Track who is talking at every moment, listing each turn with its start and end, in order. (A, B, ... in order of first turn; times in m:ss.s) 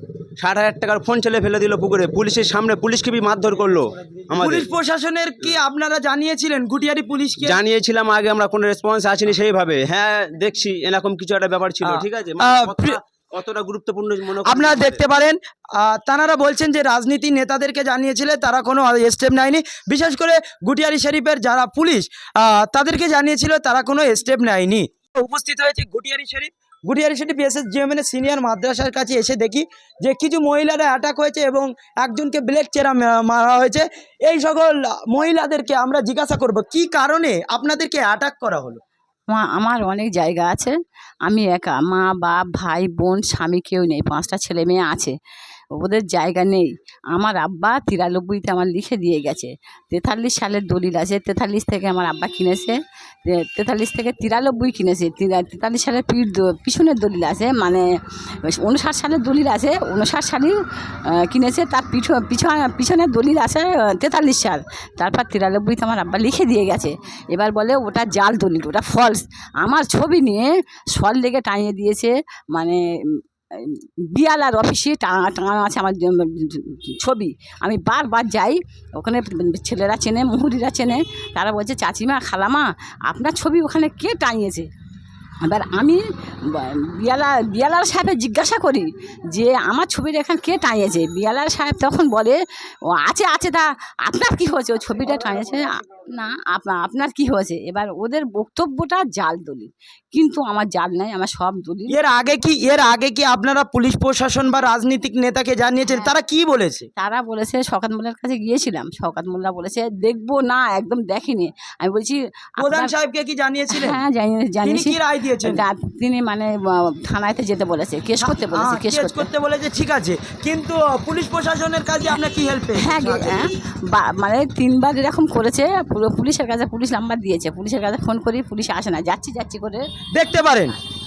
0:00.4-0:04.7 A
0:04.4-0:07.6 B
0:07.4-0:15.0 A
0:11.8-0:13.0 B
0:14.5-0:38.8 B
0:39.3-0:40.7 C
0:41.3-0:45.1 C
0:45.8-0:57.8 C
0:58.6-1:00.5 C
1:01.2-1:12.8 C
1:13.6-1:24.7 C
1:25.4-1:32.4 C
1:33.0-1:42.0 C
1:41.9-1:46.9 B
1:47.0-1:52.9 C
1:52.6-1:54.0 B
1:53.7-1:59.3 C
1:54.6-1:55.6 B
1:58.2-2:03.5 B
2:02.7-2:09.8 C
2:10.2-2:10.7 B